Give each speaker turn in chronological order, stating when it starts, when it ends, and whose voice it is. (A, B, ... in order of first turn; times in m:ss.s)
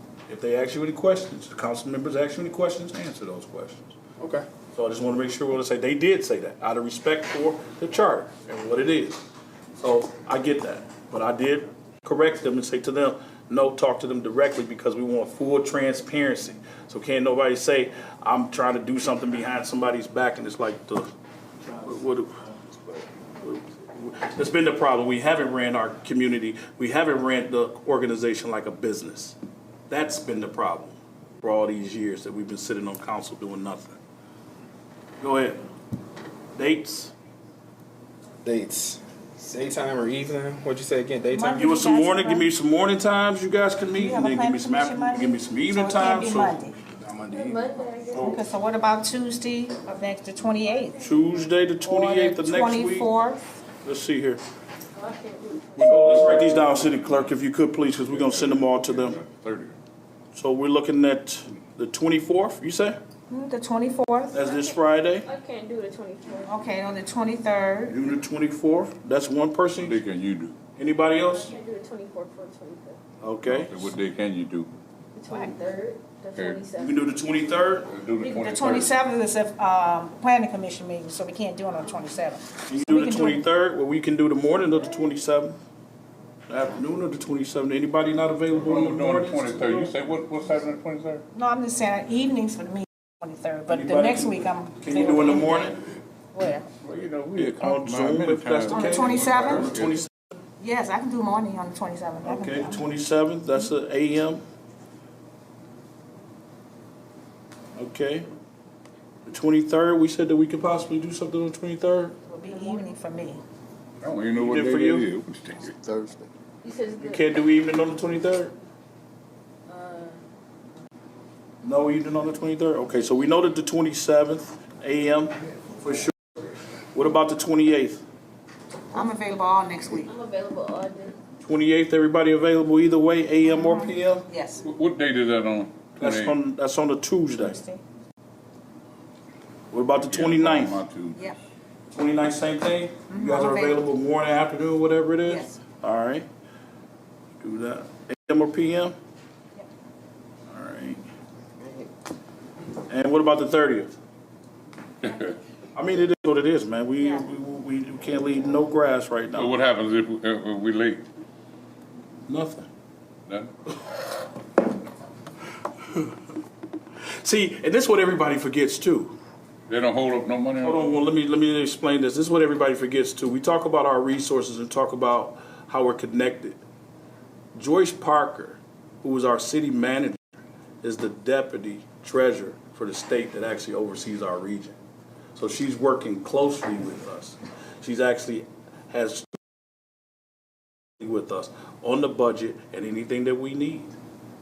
0:00.3-0:03.9 A
0:04.2-0:04.5 B
0:04.7-0:09.2 A
0:09.8-0:21.1 A
0:21.8-0:22.4 A
0:23.4-0:29.4 A
0:29.9-0:34.0 A
0:35.2-0:35.6 A
0:36.6-0:37.1 A
0:38.4-0:41.8 B
0:41.3-0:42.5 C
0:41.6-0:46.7 A
0:43.9-0:46.8 C
0:46.9-0:47.7 B
0:47.3-0:48.5 D
0:48.2-0:51.0 C
0:50.8-0:51.4 D
0:51.0-0:53.1 A
0:51.8-0:53.4 C
0:53.8-0:54.4 A
0:54.9-0:56.2 D
0:55.8-0:59.2 A
0:55.8-0:57.4 E
0:58.0-0:59.8 E
1:00.3-1:03.0 A
1:03.3-1:04.4 C
1:04.3-1:05.3 A
1:04.4-1:06.5 D
1:06.5-1:08.0 C
1:07.9-1:10.0 A
1:09.8-1:10.6 E
1:10.8-1:11.5 A
1:11.2-1:13.0 D
1:13.2-1:13.9 A
1:13.4-1:14.7 E
1:15.1-1:17.0 D
1:16.4-1:16.6 E
1:16.8-1:17.9 A
1:17.9-1:19.0 E
1:18.2-1:23.5 C
1:22.7-1:25.6 A
1:26.5-1:29.9 A
1:28.5-1:31.2 E
1:31.3-1:35.8 C
1:33.7-1:35.8 A
1:36.3-1:36.7 C
1:36.8-1:40.0 E
1:37.4-1:40.1 A
1:38.7-1:39.8 C
1:40.6-1:42.8 C
1:42.2-1:44.4 A
1:47.8-1:48.2 A
1:49.3-1:52.2 A
1:52.3-1:53.4 C
1:52.5-1:52.9 D
1:54.0-1:56.0 E
1:54.3-1:55.1 A
1:56.6-1:57.4 D
1:57.0-1:58.5 A
1:59.7-2:00.2 D
2:01.6-2:06.1 A
2:06.9-2:08.0 A
2:08.9-2:10.1 C
2:09.9-2:11.2 D
2:11.4-2:14.3 A
2:13.4-2:14.6 C
2:14.6-2:16.4 E
2:16.0-2:17.6 A
2:17.4-2:17.8 C
2:19.7-2:20.8 A
2:20.0-2:21.2 E
2:21.9-2:26.3 A
2:23.1-2:23.8 C
2:25.3-2:25.6 C
2:27.4-2:29.0 A
2:30.5-2:31.0 A
2:32.9-2:33.9 A
2:35.0-2:35.4 E
2:35.8-2:39.6 A
2:39.4-2:41.0 E
2:42.3-2:42.7 A
2:47.2-2:49.2 A
2:49.7-2:50.9 E
2:50.6-2:56.6 A
2:57.6-3:00.2 A
3:00.8-3:04.8 A
3:05.4-3:09.3 A
3:11.0-3:13.9 A